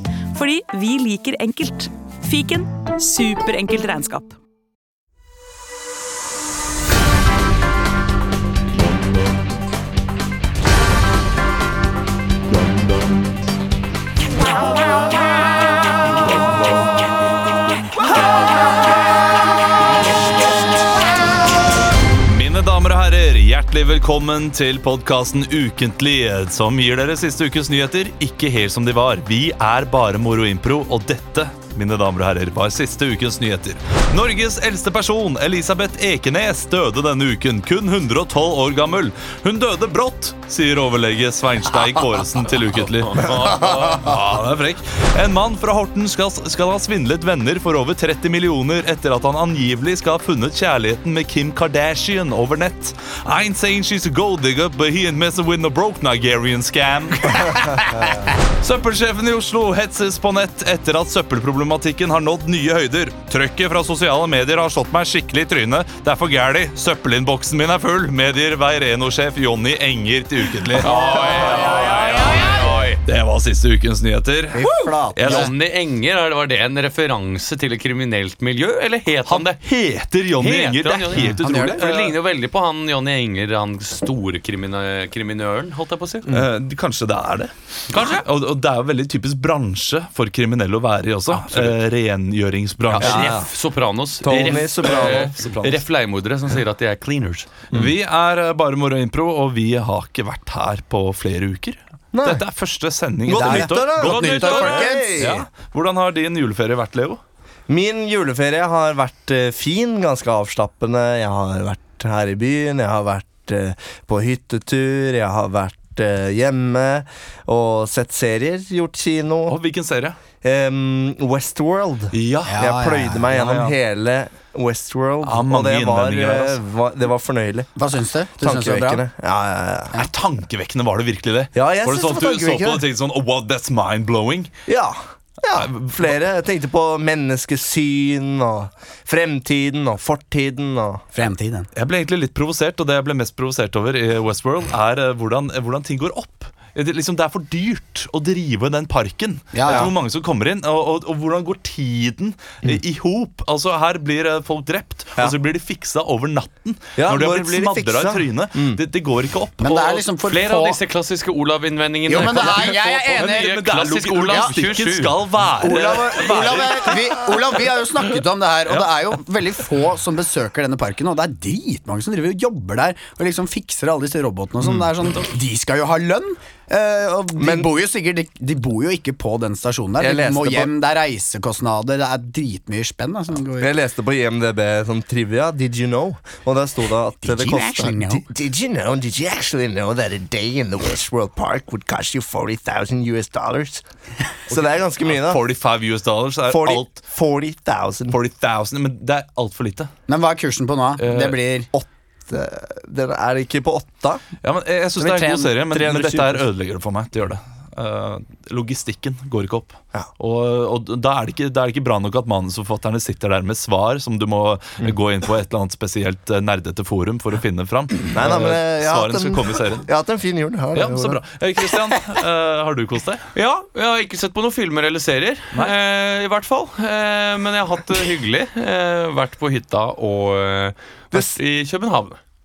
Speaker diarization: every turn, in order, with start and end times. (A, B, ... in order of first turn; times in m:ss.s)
0:00.3-0:04.4 A
0:22.2-0:57.9 B
0:43.1-0:44.0 C
0:58.5-1:15.5 B
1:10.8-1:13.0 C
1:10.8-1:12.7 D
1:14.5-1:15.5 D
1:15.2-1:19.6 C
1:19.2-1:22.2 B
1:20.3-1:26.3 C
1:21.2-1:21.8 D
1:26.3-1:33.5 B
1:27.9-1:28.2 C
1:32.9-1:37.6 C
1:33.0-1:33.3 E
1:34.2-1:35.3 E
1:34.8-1:35.8 B
1:37.7-1:47.2 B
1:42.1-1:42.4 E
1:43.2-1:45.5 E
1:43.3-1:45.1 D
1:44.0-1:44.8 C
1:47.7-1:59.6 E
1:59.5-2:00.2 B
2:00.4-2:07.7 E
2:02.1-2:02.7 B
2:02.4-2:03.2 D
2:03.2-2:03.7 B
2:05.2-2:06.6 B
2:07.8-2:09.0 D
2:08.4-2:10.1 E
2:09.9-2:14.5 B
2:11.5-2:12.8 E
2:14.6-2:21.2 E
2:15.5-2:16.1 B
2:21.1-2:21.7 D
2:21.7-2:40.0 B
2:29.5-2:29.9 D
2:29.6-2:29.9 E
2:37.0-2:38.8 E
2:39.6-2:40.8 D
2:40.2-2:45.2 C
2:42.1-2:43.6 D
2:42.2-2:47.0 B
2:45.6-2:47.2 E
2:45.7-3:03.7 D
2:54.6-2:54.9 B
2:57.4-2:57.7 E
3:00.0-3:00.7 E
3:03.6-3:13.8 E
3:07.2-3:08.2 D
3:14.5-3:15.4 E
3:14.5-3:16.9 B
3:16.5-3:18.2 E
3:18.1-3:19.9 B
3:20.1-3:21.7 D
3:21.0-3:21.3 B
3:21.7-3:24.2 E
3:24.4-3:39.8 B
3:25.0-3:25.5 D
3:25.6-3:26.5 E
3:38.1-3:41.2 E
3:40.7-3:43.2 B
3:43.3-3:52.2 C